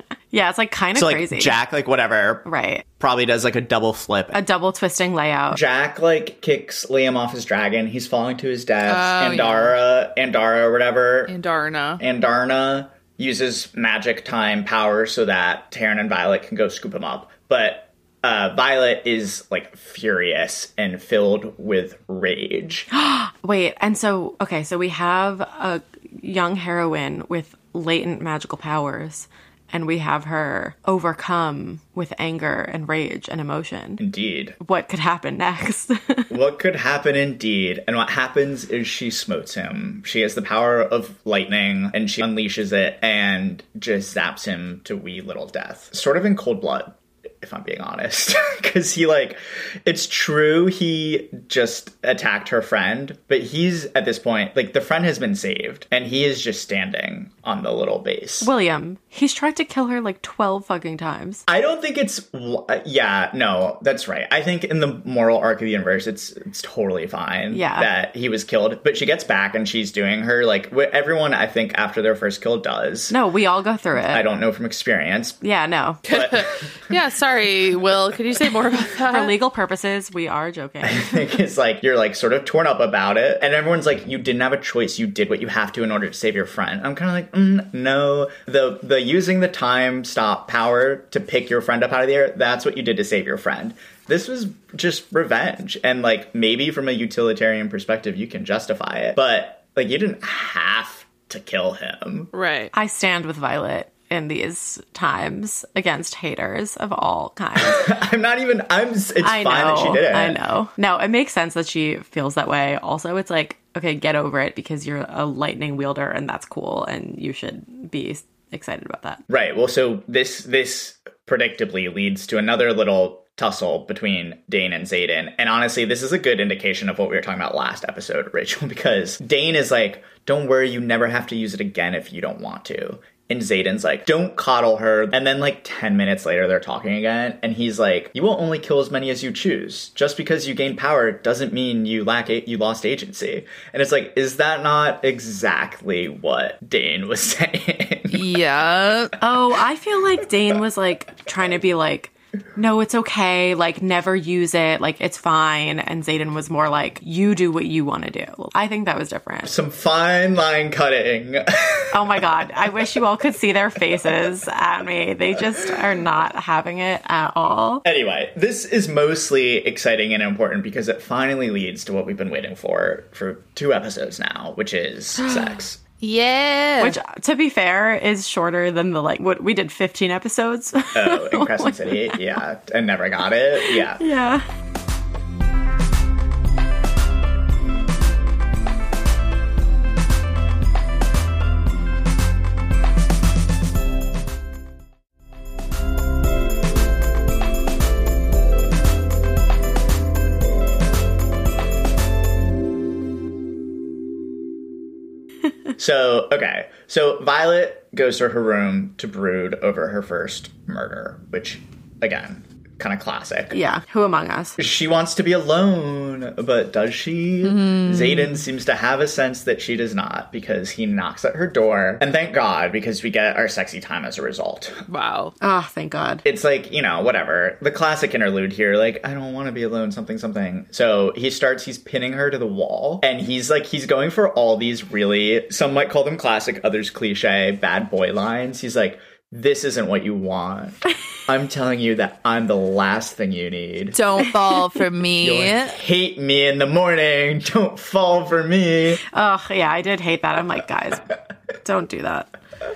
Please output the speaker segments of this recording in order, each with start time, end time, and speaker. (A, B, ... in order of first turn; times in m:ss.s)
0:00.3-0:01.6 A
0:00.9-0:02.4 B
0:02.4-0:02.8 A
0:03.0-0:04.4 B
0:04.3-0:05.6 A
0:05.5-0:11.3 B
0:08.8-0:09.8 C
0:11.3-0:12.0 C
0:12.0-0:22.9 B
0:22.9-0:34.0 A
0:34.0-0:34.6 B
0:34.6-0:36.3 A
0:36.3-0:58.5 B
0:58.4-1:01.4 A
1:01.5-1:13.2 B
1:07.5-1:07.9 A
1:13.1-1:14.2 A
1:14.0-1:15.4 B
1:15.4-1:16.0 A
1:16.0-1:19.3 C
1:16.1-1:16.9 B
1:18.9-1:21.2 A
1:20.8-1:42.3 B
1:42.3-1:42.7 C
1:42.7-1:47.9 A
1:47.6-1:50.4 B
1:49.2-1:59.2 A
1:59.3-2:28.2 B
2:28.1-2:29.1 C
2:29.2-2:39.5 A
2:39.4-2:42.8 B
2:41.9-2:47.8 A
2:47.8-2:55.8 B
2:56.0-2:57.0 C
2:56.8-3:02.2 A
3:00.9-3:04.0 B
3:03.6-3:04.4 A
3:25.8-3:33.6 B
3:33.5-3:34.6 A
3:34.6-3:44.8 B
3:37.4-3:38.4 C
3:44.9-3:45.3 C
3:45.4-3:46.2 A
3:46.2-4:04.0 B
4:03.9-4:05.8 C
4:05.2-4:09.0 B
4:09.0-4:11.1 A
4:11.6-4:12.3 A